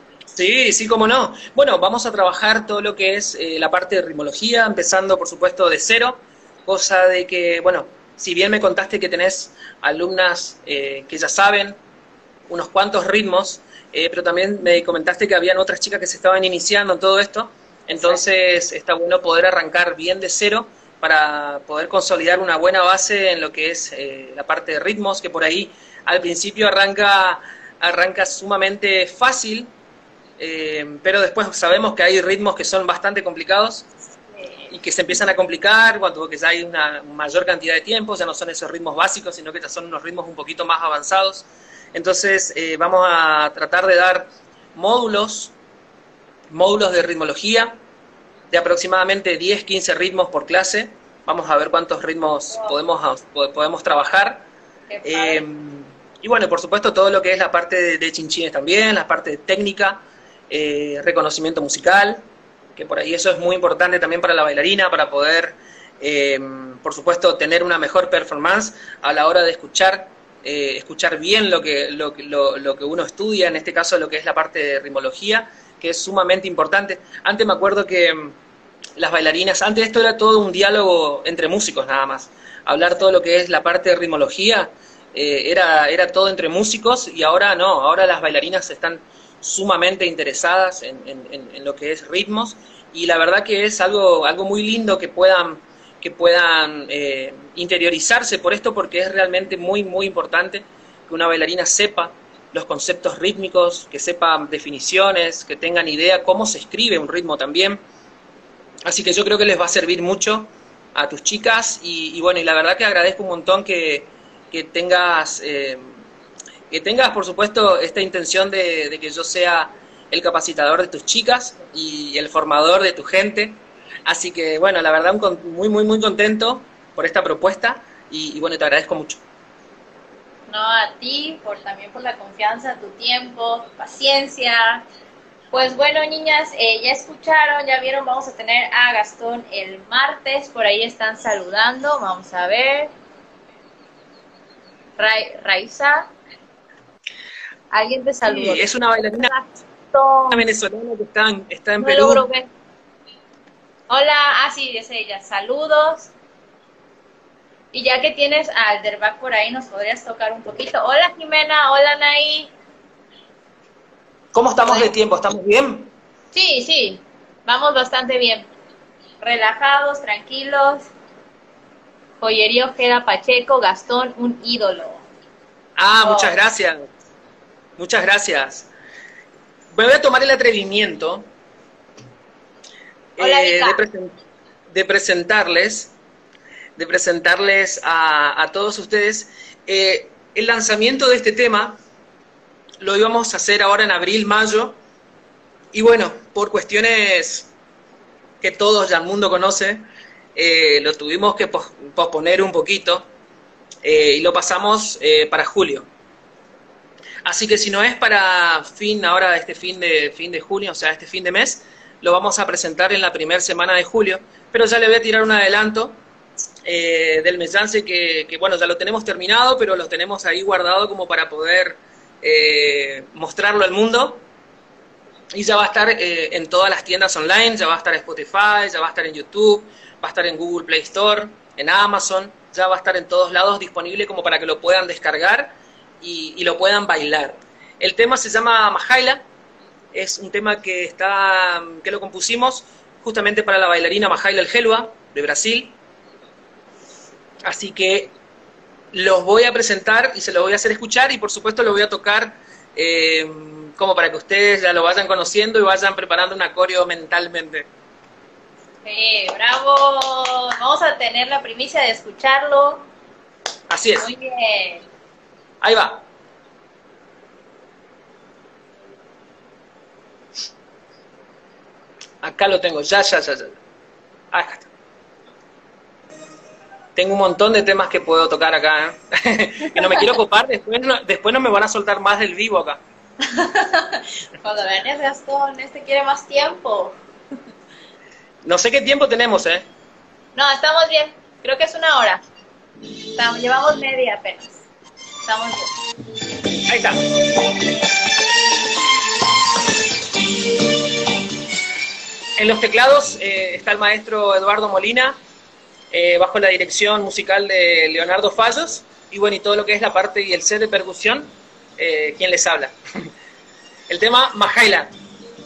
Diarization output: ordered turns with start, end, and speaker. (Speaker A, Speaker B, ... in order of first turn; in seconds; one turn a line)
Speaker A: 0.3-11.8
Speaker A: 12.5-29.7
Speaker B: 17.9-18.2
Speaker A: 30.4-33.9
Speaker B: 34.2-34.7
Speaker A: 34.7-45.5
Speaker A: 46.5-47.8
Speaker A: 48.5-54.5
Speaker B: 52.5-52.8
Speaker B: 54.9-55.5
Speaker A: 55.0-62.2
Speaker A: 62.8-78.4
Speaker A: 79.0-107.8
Speaker A: 108.9-115.9
Speaker A: 116.7-129.2
Speaker B: 130.5-134.8
Speaker B: 135.5-142.9
Speaker B: 145.0-146.1
Speaker B: 147.7-150.5
Speaker A: 148.2-149.3
Speaker A: 150.3-152.2
Speaker B: 151.8-152.5
Speaker B: 153.9-156.1
Speaker B: 157.7-162.5
Speaker A: 164.3-165.9
Speaker B: 164.6-164.9
Speaker B: 166.3-168.5
Speaker B: 169.2-170.9
Speaker B: 172.2-175.1
Speaker A: 175.8-176.8
Speaker B: 176.0-176.4
Speaker A: 177.8-178.7
Speaker A: 179.7-181.3
Speaker A: 183.2-184.1
Speaker B: 183.2-183.8
Speaker A: 184.7-185.9
Speaker A: 186.8-191.8
Speaker A: 192.8-194.8
Speaker A: 195.7-197.5
Speaker A: 198.4-199.8
Speaker A: 200.3-203.1
Speaker A: 203.8-205.9
Speaker A: 207.2-216.0
Speaker A: 216.6-224.2
Speaker A: 225.3-239.2
Speaker A: 239.9-245.8
Speaker A: 247.4-248.2
Speaker A: 248.9-257.7
Speaker B: 258.9-262.9
Speaker A: 263.7-264.1
Speaker B: 264.0-264.9
Speaker A: 265.6-266.1
Speaker A: 272.2-273.6
Speaker A: 274.3-274.7
Speaker A: 277.0-282.8
Speaker B: 283.2-287.0
Speaker A: 288.4-289.7
Speaker B: 290.4-292.2
Speaker B: 293.1-294.7
Speaker B: 295.2-295.7
Speaker A: 296.7-297.0
Speaker A: 302.4-305.2
Speaker A: 305.9-312.8
Speaker A: 313.9-314.9